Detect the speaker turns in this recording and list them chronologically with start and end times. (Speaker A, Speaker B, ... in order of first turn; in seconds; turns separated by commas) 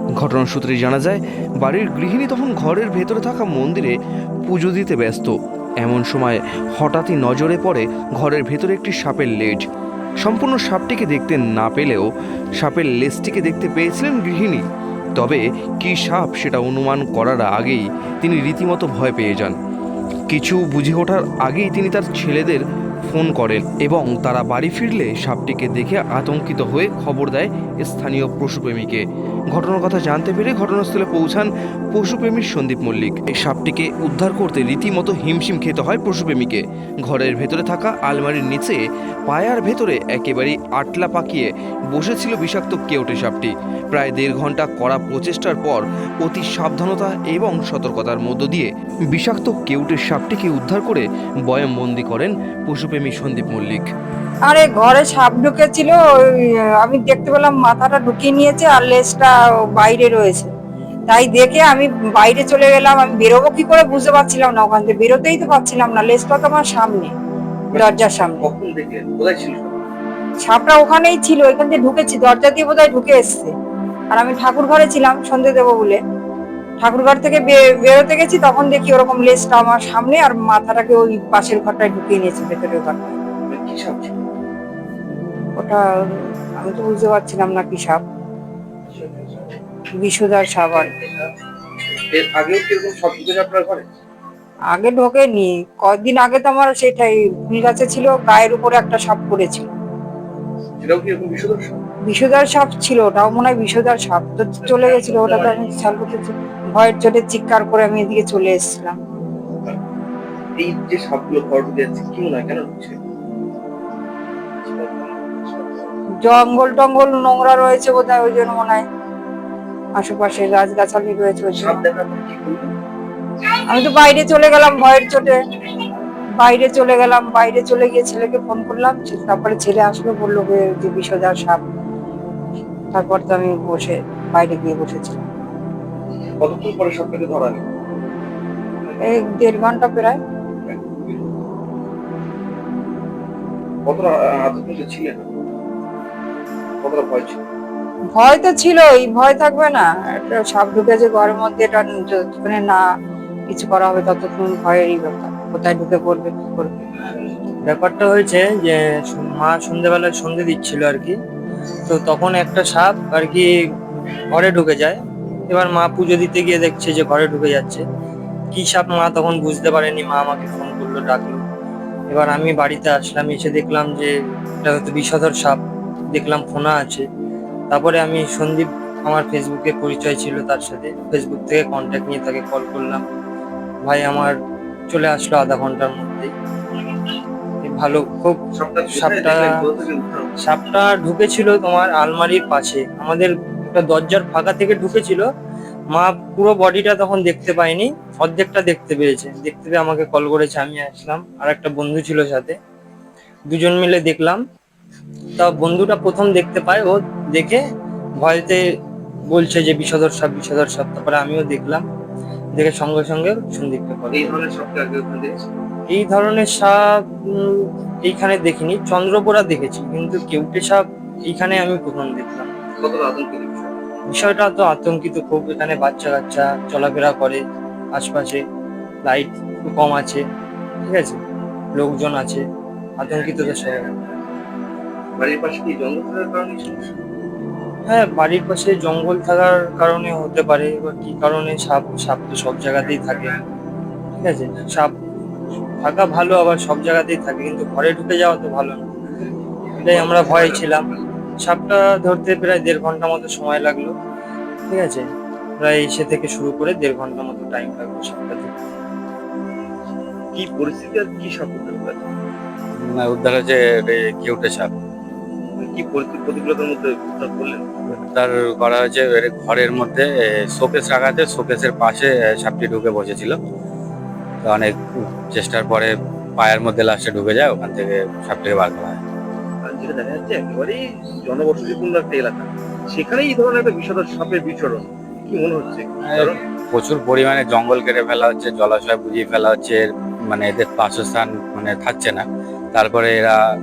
Speaker A: 0.2-3.9, Speaker A: 4.5-9.6, Speaker A: 10.2-12.1, Speaker A: 12.6-14.7, Speaker A: 15.2-19.6, Speaker A: 20.3-53.9, Speaker B: 54.5-56.0, Speaker B: 56.8-60.5, Speaker B: 61.1-67.1, Speaker C: 67.7-69.8, Speaker B: 67.7-68.5, Speaker B: 70.4-73.5, Speaker B: 74.1-76.0, Speaker B: 76.8-83.2, Speaker C: 83.5-84.2, Speaker B: 86.6-88.0, Speaker C: 88.9-89.5, Speaker B: 90.0-91.0, Speaker C: 90.8-91.2, Speaker C: 92.1-93.8, Speaker B: 94.7-99.7, Speaker C: 100.8-101.8, Speaker B: 102.1-109.0, Speaker C: 104.7-105.7, Speaker C: 110.6-113.0, Speaker C: 114.6-115.9, Speaker B: 116.2-118.8, Speaker B: 120.0-121.8, Speaker C: 121.5-122.7, Speaker B: 123.7-125.4, Speaker B: 126.4-131.6, Speaker B: 132.9-135.2, Speaker C: 136.4-137.6, Speaker B: 139.0-140.2, Speaker C: 140.7-141.3, Speaker C: 143.9-145.3, Speaker C: 146.8-147.4, Speaker B: 148.1-152.8, Speaker B: 153.5-156.8, Speaker D: 157.7-161.2, Speaker D: 161.9-163.5, Speaker D: 164.3-167.8, Speaker D: 168.5-171.4, Speaker D: 172.1-175.6, Speaker D: 176.1-177.1, Speaker D: 177.7-183.0, Speaker D: 183.8-184.3, Speaker D: 184.9-186.3, Speaker D: 187.6-189.7, Speaker C: 188.6-190.3, Speaker D: 190.4-195.3, Speaker D: 195.9-202.6, Speaker D: 203.5-204.4, Speaker D: 205.4-207.6, Speaker D: 208.2-208.6, Speaker D: 209.3-211.8, Speaker D: 212.6-214.5, Speaker C: 214.1-215.4, Speaker D: 215.9-222.5, Speaker C: 222.8-223.7, Speaker D: 224.1-227.4, Speaker D: 227.9-228.4, Speaker D: 229.0-230.2, Speaker D: 230.8-231.2, Speaker D: 231.7-232.4, Speaker D: 233.0-233.9, Speaker C: 233.1-234.1, Speaker C: 235.2-237.0, Speaker D: 237.9-243.3, Speaker D: 244.2-244.9, Speaker D: 245.8-248.9, Speaker C: 249.6-251.0, Speaker D: 249.8-250.9, Speaker D: 251.4-253.9, Speaker D: 254.7-255.1, Speaker D: 255.6-258.6, Speaker C: 260.4-262.0, Speaker E: 262.8-264.7, Speaker C: 265.6-267.7, Speaker E: 267.9-273.4, Speaker E: 274.4-279.0, Speaker C: 279.7-286.4, Speaker E: 286.1-293.4